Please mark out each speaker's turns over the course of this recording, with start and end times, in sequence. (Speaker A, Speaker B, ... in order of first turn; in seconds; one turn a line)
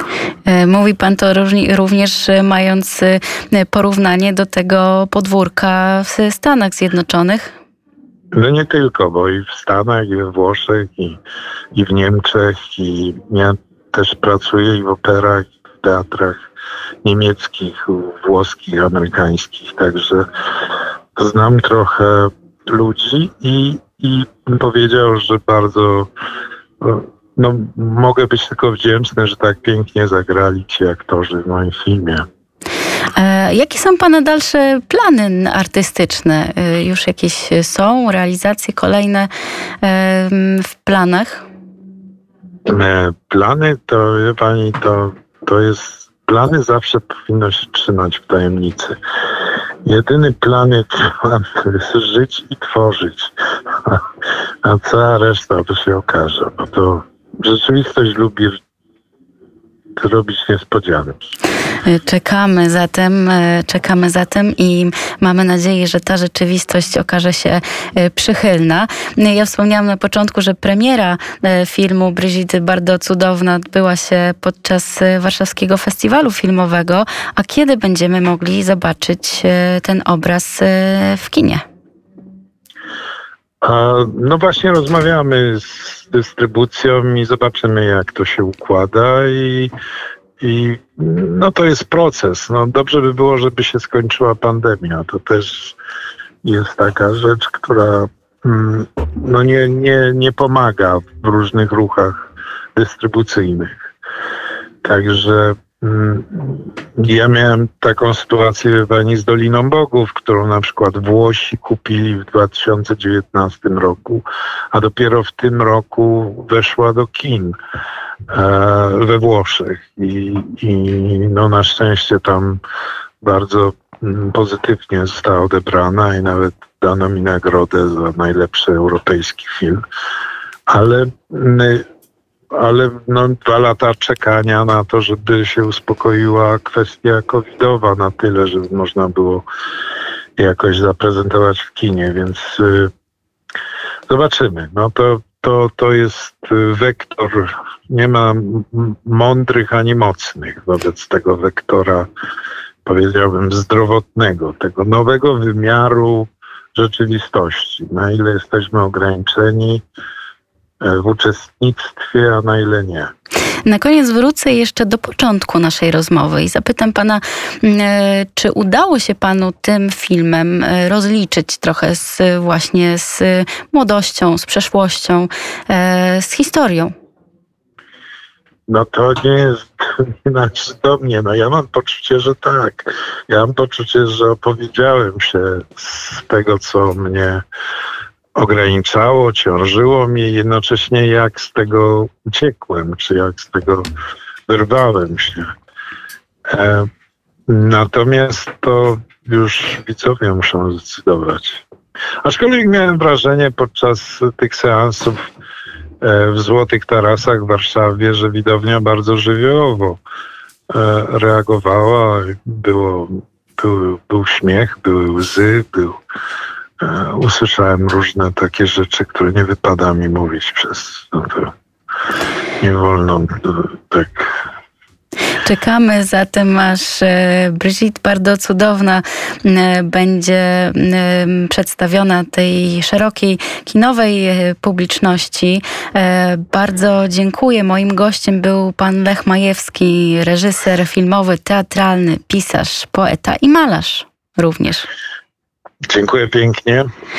Speaker A: 0.5-7.5
Speaker B: 8.3-11.2
Speaker B: 11.7-16.4
Speaker B: 17.0-20.3
Speaker B: 21.1-26.1
Speaker B: 26.8-32.2
Speaker A: 33.1-39.3
Speaker A: 39.8-41.4
Speaker B: 42.7-49.0
Speaker B: 49.8-54.0
Speaker B: 54.6-58.6
Speaker B: 60.0-61.3
Speaker A: 61.8-81.6
Speaker B: 83.6-89.7
Speaker B: 90.4-95.8
Speaker B: 96.4-103.8
Speaker B: 104.8-117.5
Speaker B: 118.3-122.6
Speaker B: 123.2-129.8
Speaker B: 130.7-131.8
Speaker B: 132.5-139.4
Speaker B: 140.4-142.9
Speaker B: 144.1-152.1
Speaker B: 152.8-159.8
Speaker B: 160.8-163.1
Speaker A: 163.6-176.9
Speaker B: 178.7-187.4
Speaker B: 188.3-193.9
Speaker B: 194.5-195.5
Speaker B: 196.5-196.9
Speaker B: 197.5-201.6
Speaker B: 202.2-205.2
Speaker B: 206.0-210.0
Speaker B: 210.7-216.0
Speaker B: 216.8-221.5
Speaker B: 222.6-224.3
Speaker A: 225.4-244.9
Speaker B: 245.9-246.9